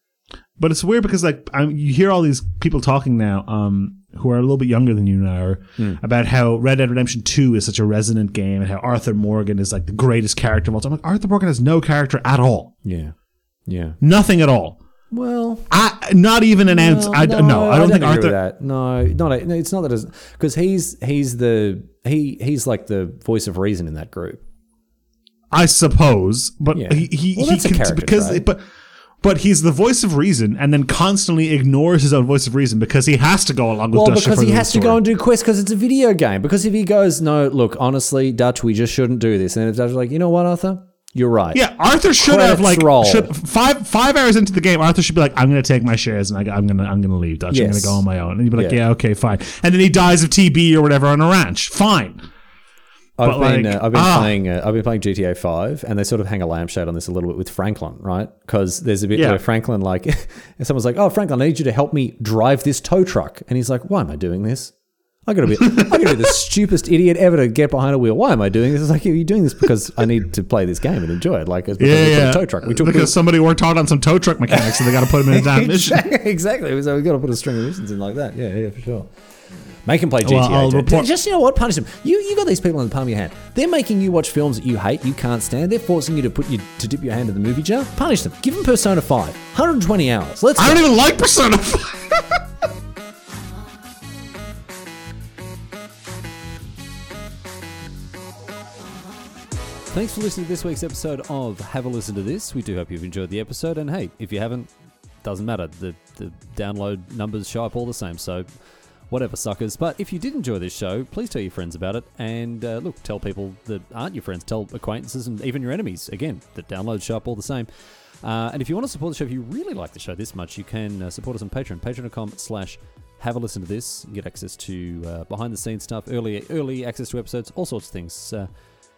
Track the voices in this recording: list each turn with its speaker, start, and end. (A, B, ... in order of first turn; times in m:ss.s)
0:00.6-0:12.7 A
0:12.8-0:13.1 B
0:13.7-0:14.0 B
0:14.0-0:14.8 A
0:15.1-0:15.7 B
0:15.7-0:18.4 A
0:16.6-0:24.4 B
0:25.5-0:28.6 A
0:26.7-0:28.4 B
0:29.2-0:35.0 A
0:33.9-0:41.6 B
0:41.5-0:52.2 A
0:42.2-0:43.3 B
0:47.5-0:48.0 B
0:48.6-0:48.8 B
0:53.2-1:04.7 B
0:53.2-0:54.4 A
0:59.1-0:59.4 A
1:05.3-1:13.2 B
1:05.6-1:06.4 A
1:11.8-1:16.1 A
1:14.5-1:19.1 B
1:19.8-1:30.9 B
1:20.2-1:21.1 A
1:30.6-1:32.4 A
1:39.9-1:44.7 B
1:45.2-1:48.5 B
1:49.1-1:57.7 B
1:58.2-2:08.5 B